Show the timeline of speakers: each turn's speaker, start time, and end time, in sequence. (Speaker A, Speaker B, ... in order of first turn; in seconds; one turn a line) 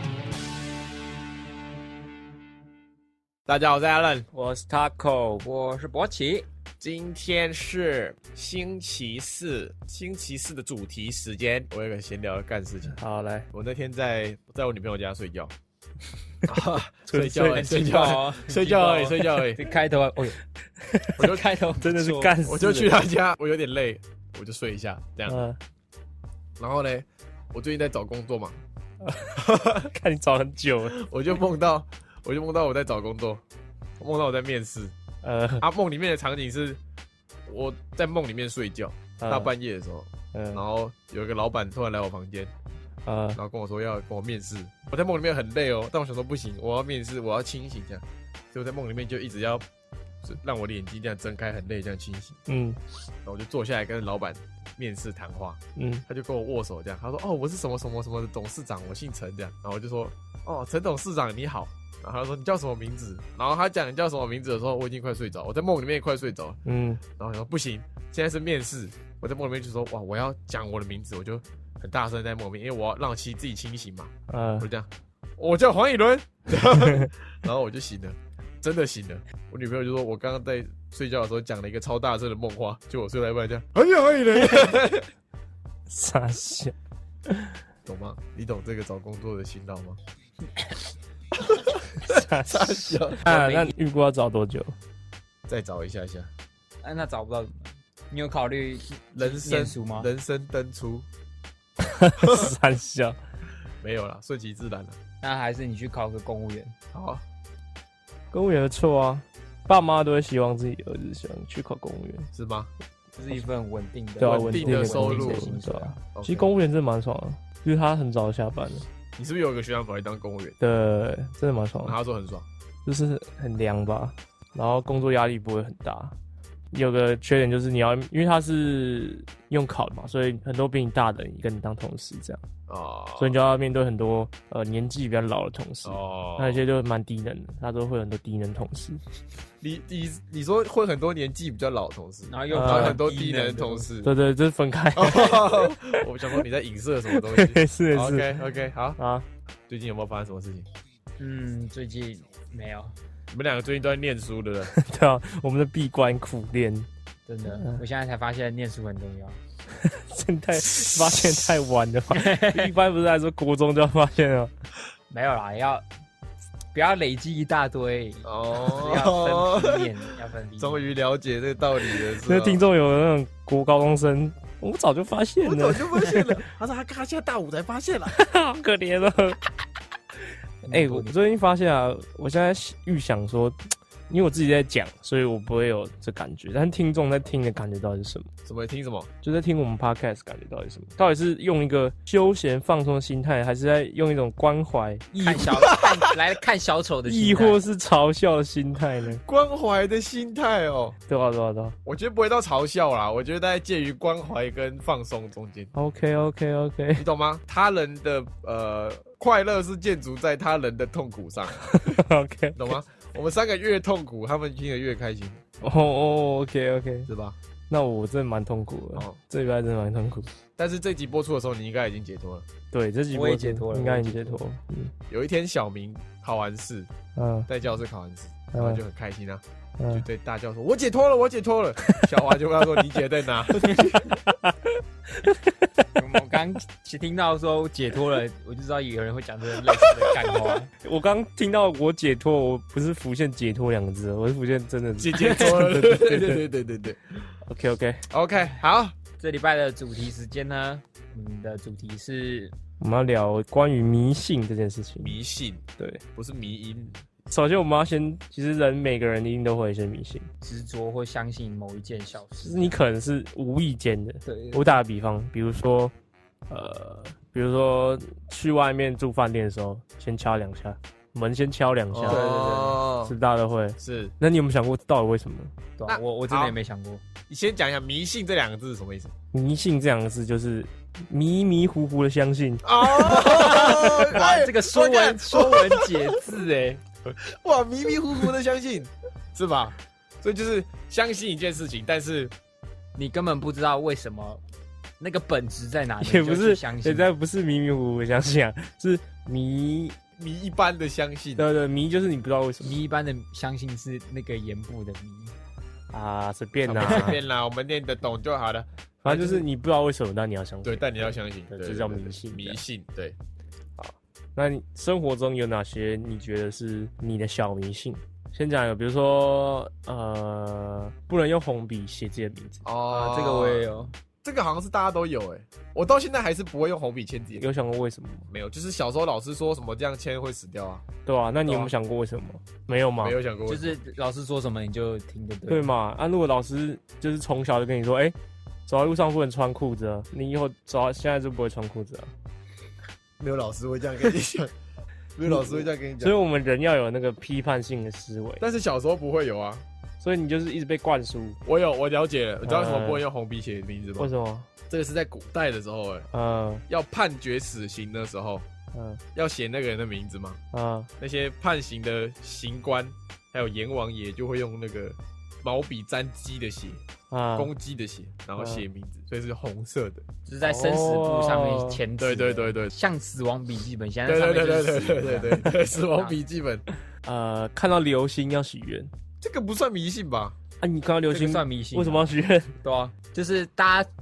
Speaker A: 3.5-4.3
Speaker B: 4.3-5.5
Speaker C: 5.4-6.5
Speaker A: 6.8-13.0
Speaker B: 13.0-13.5
Speaker A: 13.5-15.5
Speaker A: 16.4-19.6
Speaker B: 17.1-18.1
Speaker C: 17.5-20.4
Speaker B: 20.8-23.0
Speaker C: 21.1-22.4
Speaker A: 22.4-25.5
Speaker B: 25.3-25.6
Speaker A: 26.6-28.6
Speaker B: 29.0-31.0
Speaker A: 29.3-29.9
Speaker A: 30.9-33.4
Speaker A: 34.0-34.9
Speaker B: 35.2-35.6
Speaker A: 35.6-36.8
Speaker A: 37.5-42.5
Speaker B: 39.2-39.5
Speaker B: 40.3-40.6
Speaker B: 43.0-43.4
Speaker A: 43.4-49.6
Speaker A: 50.2-52.4
Speaker B: 52.5-52.8
Speaker A: 53.2-66.6
Speaker B: 55.8-56.0
Speaker B: 66.7-67.0
Speaker A: 67.2-85.1
Speaker B: 74.3-74.7
Speaker B: 85.9-86.7
Speaker A: 87.8-90.0
Speaker A: 91.3-93.2
Speaker B: 92.0-94.7
Speaker C: 93.2-93.7
Speaker A: 95.5-96.3
Speaker C: 96.8-100.1
Speaker A: 99.1-101.0
Speaker B: 101.8-103.2
Speaker A: 102.2-102.5
Speaker A: 103.8-105.0
Speaker C: 105.2-106.7
Speaker A: 106.9-107.2
Speaker B: 108.3-112.3
Speaker A: 112.3-112.7
Speaker C: 113.2-116.0
Speaker B: 114.2-118.8
Speaker A: 114.2-115.5
Speaker A: 116.1-116.5
Speaker A: 119.2-120.5
Speaker B: 120.6-122.0
Speaker A: 121.8-122.5
Speaker B: 122.8-126.1
Speaker B: 126.7-132.4
Speaker A: 132.7-133.4
Speaker B: 133.2-139.0
Speaker A: 135.8-136.6
Speaker A: 139.6-144.1
Speaker C: 142.3-143.9
Speaker B: 142.5-143.0
Speaker B: 144.0-146.4
Speaker A: 144.9-149.0
Speaker B: 147.1-148.4
Speaker B: 149.0-149.2
Speaker A: 149.7-150.7
Speaker C: 151.2-152.9
Speaker A: 153.3-154.7
Speaker B: 154.7-156.9
Speaker C: 157.3-159.4
Speaker B: 157.5-157.8
Speaker B: 159.8-164.5
Speaker A: 160.7-161.4
Speaker C: 162.1-162.7
Speaker C: 165.1-165.8
Speaker C: 166.7-170.9
Speaker A: 168.2-169.9
Speaker A: 170.6-172.6
Speaker B: 172.0-176.4
Speaker A: 175.4-178.2
Speaker B: 178.1-179.4
Speaker C: 180.6-181.2
Speaker B: 180.7-183.6
Speaker B: 184.1-188.3
Speaker A: 188.4-189.1
Speaker B: 189.2-195.6
Speaker C: 195.1-197.6
Speaker A: 195.5-196.1
Speaker B: 197.1-199.2
Speaker A: 199.2-201.0
Speaker B: 201.1-201.8
Speaker A: 201.8-205.7
Speaker B: 205.7-207.1
Speaker A: 207.0-211.9
Speaker B: 211.6-212.7
Speaker A: 212.5-215.4
Speaker B: 215.6-217.1
Speaker A: 217.1-217.3
Speaker B: 217.7-220.3
Speaker A: 220.6-222.5
Speaker B: 222.7-224.9
Speaker C: 223.1-224.4
Speaker A: 225.1-226.9
Speaker B: 227.2-227.5
Speaker A: 227.5-234.3
Speaker B: 228.5-228.8
Speaker B: 229.8-230.0
Speaker C: 235.9-240.7
Speaker B: 240.8-246.4
Speaker A: 245.0-247.2
Speaker B: 247.4-248.0
Speaker A: 248.1-248.9
Speaker C: 249.2-252.5
Speaker B: 252.8-255.2
Speaker A: 255.0-255.6
Speaker A: 256.1-257.0
Speaker B: 257.3-260.3
Speaker C: 260.4-262.8
Speaker B: 262.4-265.9
Speaker C: 264.2-264.8
Speaker B: 266.5-272.3
Speaker A: 271.9-273.1
Speaker C: 272.0-272.8
Speaker B: 273.0-275.5
Speaker A: 273.8-274.1
Speaker C: 275.8-277.0
Speaker A: 275.9-276.6
Speaker A: 277.3-279.1
Speaker B: 279.3-282.6
Speaker A: 282.6-286.2
Speaker C: 282.8-286.8
Speaker B: 283.5-283.9
Speaker A: 287.0-292.3
Speaker C: 292.9-294.4
Speaker C: 295.0-297.1
Speaker B: 296.0-300.0
Speaker A: 300.2-301.4
Speaker B: 301.4-302.7
Speaker C: 302.6-305.4
Speaker B: 305.9-307.2
Speaker A: 306.6-309.5
Speaker C: 306.8-307.1
Speaker B: 309.0-312.6
Speaker A: 310.6-313.2
Speaker B: 314.4-322.6
Speaker A: 322.6-327.5
Speaker C: 322.9-323.9
Speaker B: 327.4-328.3
Speaker A: 328.3-330.8
Speaker B: 331.1-333.1
Speaker A: 333.0-333.7
Speaker C: 333.5-335.7
Speaker B: 335.5-338.1
Speaker B: 338.6-342.1
Speaker A: 343.2-344.5
Speaker A: 345.1-346.1
Speaker B: 345.3-348.4
Speaker A: 348.4-349.6
Speaker B: 350.0-351.4
Speaker A: 351.4-354.1
Speaker B: 352.4-353.0
Speaker B: 354.0-354.5
Speaker A: 354.7-356.1
Speaker B: 356.1-356.6
Speaker A: 356.7-358.4
Speaker B: 358.7-359.0
Speaker A: 359.1-360.4
Speaker B: 360.5-360.9
Speaker A: 361.0-366.8
Speaker B: 367.1-367.5
Speaker A: 367.4-370.0
Speaker B: 368.4-368.6
Speaker C: 370.2-376.1
Speaker B: 370.4-371.8
Speaker A: 372.0-372.7
Speaker A: 374.1-376.6
Speaker B: 377.0-378.9
Speaker A: 379.2-380.4
Speaker B: 380.6-382.5
Speaker C: 381.1-382.1
Speaker C: 382.6-383.9